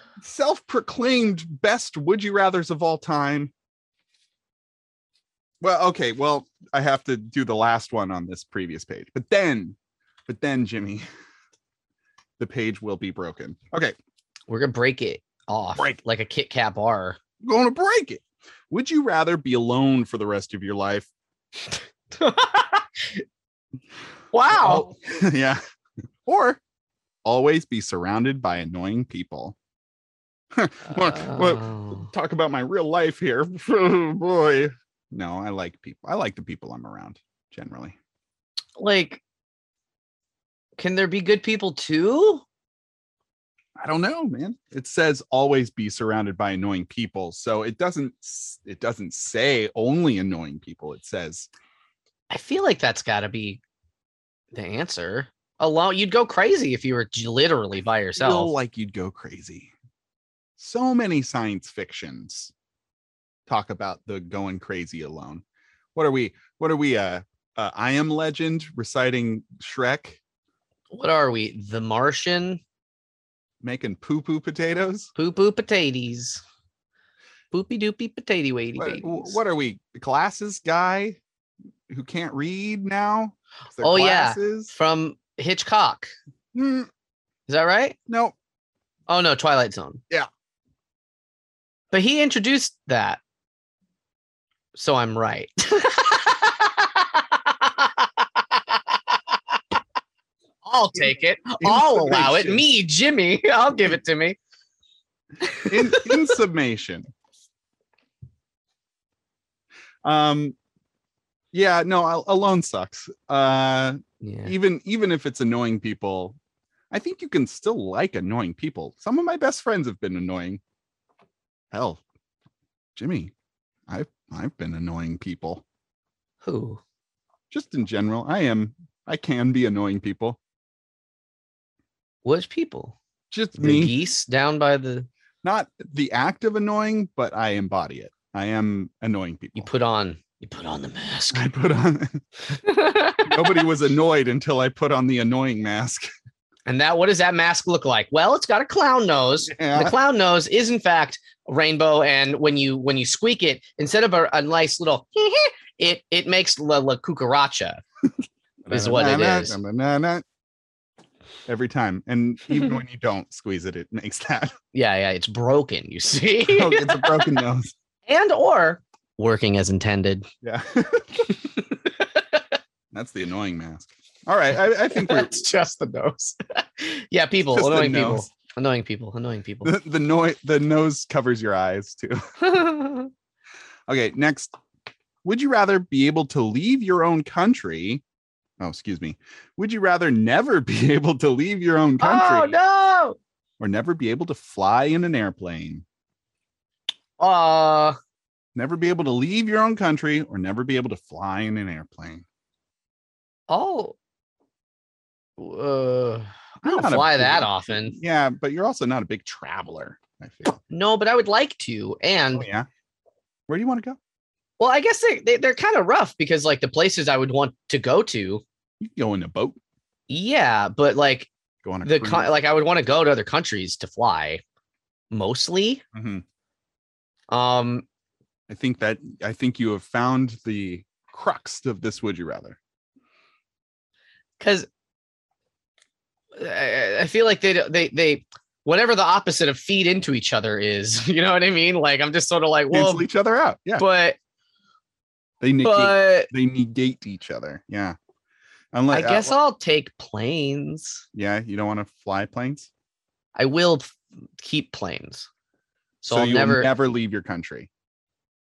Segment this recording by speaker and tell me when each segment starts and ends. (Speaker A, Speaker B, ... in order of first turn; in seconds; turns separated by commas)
Speaker A: 0.2-3.5, Speaker A: 5.6-9.8, Speaker A: 10.3-11.0, Speaker A: 12.4-13.9, Speaker B: 14.5-17.2, Speaker A: 17.4-21.1, Speaker B: 21.7-23.2, Speaker B: 24.3-24.9, Speaker A: 24.5-25.6, Speaker A: 26.2-26.6, Speaker A: 27.2-29.6, Speaker A: 30.5-38.0, Speaker B: 30.9-32.1, Speaker B: 38.8-39.2, Speaker B: 40.8-42.4, Speaker A: 43.8-51.5, Speaker B: 52.3-53.6, Speaker B: 54.5-58.5, Speaker A: 58.2-59.7, Speaker A: 60.6-62.5, Speaker A: 63.5-65.4, Speaker A: 66.0-70.2, Speaker B: 70.9-72.6, Speaker A: 73.6-75.1, Speaker B: 75.2-76.4, Speaker B: 77.5-79.4, Speaker A: 78.8-81.2, Speaker A: 81.9-84.7, Speaker B: 83.8-86.1, Speaker A: 86.5-86.9, Speaker B: 87.5-88.0, Speaker A: 88.1-88.3, Speaker B: 89.1-90.0, Speaker B: 91.9-93.2, Speaker B: 94.7-99.6, Speaker B: 100.6-104.4, Speaker A: 101.6-102.6, Speaker B: 105.4-106.4, Speaker A: 105.7-107.1, Speaker A: 110.0-110.5, Speaker A: 111.5-116.4, Speaker B: 114.2-114.5, Speaker A: 116.9-120.6, Speaker A: 121.7-122.0, Speaker A: 123.0-123.3, Speaker A: 123.9-125.6, Speaker B: 126.4-126.8, Speaker A: 127.5-130.4, Speaker B: 132.2-133.0, Speaker A: 133.3-134.0, Speaker B: 133.6-135.1, Speaker A: 135.4-139.7, Speaker B: 139.6-141.5, Speaker A: 141.3-142.2, Speaker B: 142.5-143.7, Speaker A: 143.2-146.1, Speaker B: 146.7-157.8, Speaker A: 149.5-150.0, Speaker A: 158.6-160.2, Speaker B: 158.7-159.6, Speaker A: 161.5-164.6, Speaker B: 164.7-167.4, Speaker A: 166.4-167.7, Speaker B: 168.1-170.3, Speaker A: 170.4-171.3, Speaker B: 171.4-172.6, Speaker A: 172.9-175.4, Speaker B: 174.9-179.8, Speaker A: 177.5-178.3, Speaker A: 179.7-182.2, Speaker B: 182.4-183.1, Speaker A: 183.9-184.5, Speaker A: 185.2-188.0, Speaker A: 188.6-192.6, Speaker B: 192.0-193.2, Speaker A: 193.6-195.8, Speaker B: 197.2-198.0, Speaker A: 198.6-202.2, Speaker B: 203.5-204.0, Speaker B: 205.4-208.0, Speaker A: 206.6-210.6, Speaker B: 210.7-212.5, Speaker A: 212.3-212.7, Speaker A: 213.5-214.0, Speaker B: 214.6-218.4, Speaker A: 218.8-219.6, Speaker B: 220.1-221.3, Speaker A: 221.6-222.4, Speaker B: 221.8-224.4, Speaker B: 225.1-225.8, Speaker A: 225.9-226.2, Speaker B: 227.3-227.8, Speaker A: 228.5-232.6, Speaker B: 234.4-234.7, Speaker B: 236.3-243.1, Speaker A: 242.7-243.8, Speaker B: 243.8-244.2, Speaker A: 245.4-248.0, Speaker B: 245.6-246.3, Speaker A: 248.7-249.4, Speaker B: 248.9-251.0, Speaker A: 251.1-252.7, Speaker B: 253.3-255.3, Speaker B: 256.0-256.7, Speaker A: 256.1-257.7